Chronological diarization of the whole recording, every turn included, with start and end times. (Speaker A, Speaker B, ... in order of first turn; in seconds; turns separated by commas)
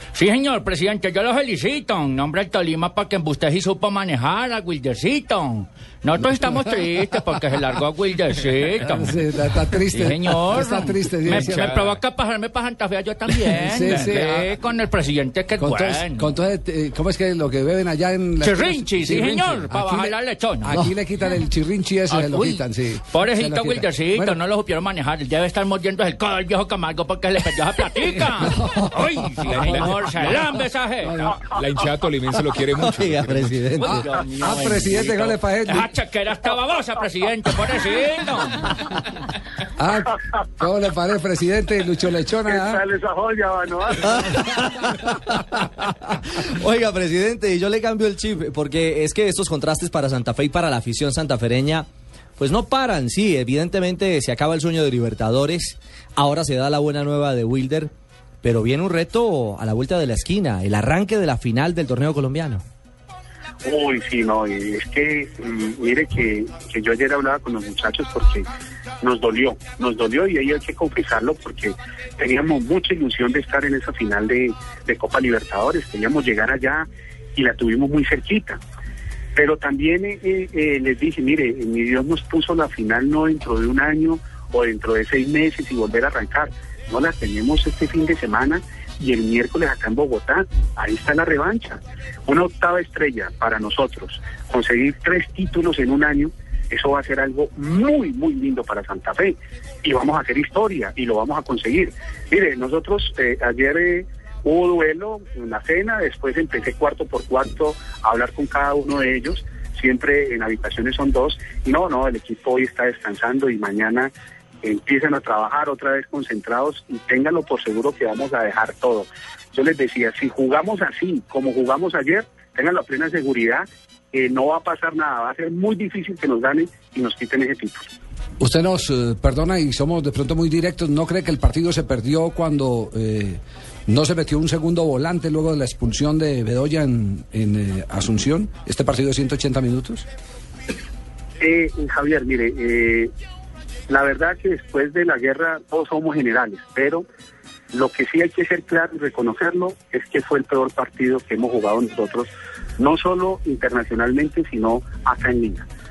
Speaker A: 0.1-16.3, Speaker B: 6.2-6.6, Speaker B: 8.8-11.9, Speaker C: 11.3-11.8, Speaker B: 13.5-14.5, Speaker B: 15.6-24.4, Speaker A: 18.4-20.9, Speaker A: 22.1-31.3, Speaker B: 28.4-28.9, Speaker C: 29.0-30.4, Speaker B: 29.4-29.8, Speaker B: 31.1-31.3, Speaker C: 31.3-33.8, Speaker D: 32.9-34.0, Speaker A: 33.8-39.0, Speaker B: 33.8-35.9, Speaker B: 39.8-42.8, Speaker E: 42.5-44.3, Speaker D: 44.2-51.9, Speaker D: 52.4-57.9, Speaker D: 58.4-62.6, Speaker E: 63.6-68.5, Speaker E: 69.0-78.6, Speaker E: 79.4-114.1, Speaker E: 114.6-127.9, Speaker B: 128.4-140.1, Speaker E: 141.4-143.1, Speaker E: 143.9-147.1, Speaker E: 147.7-155.7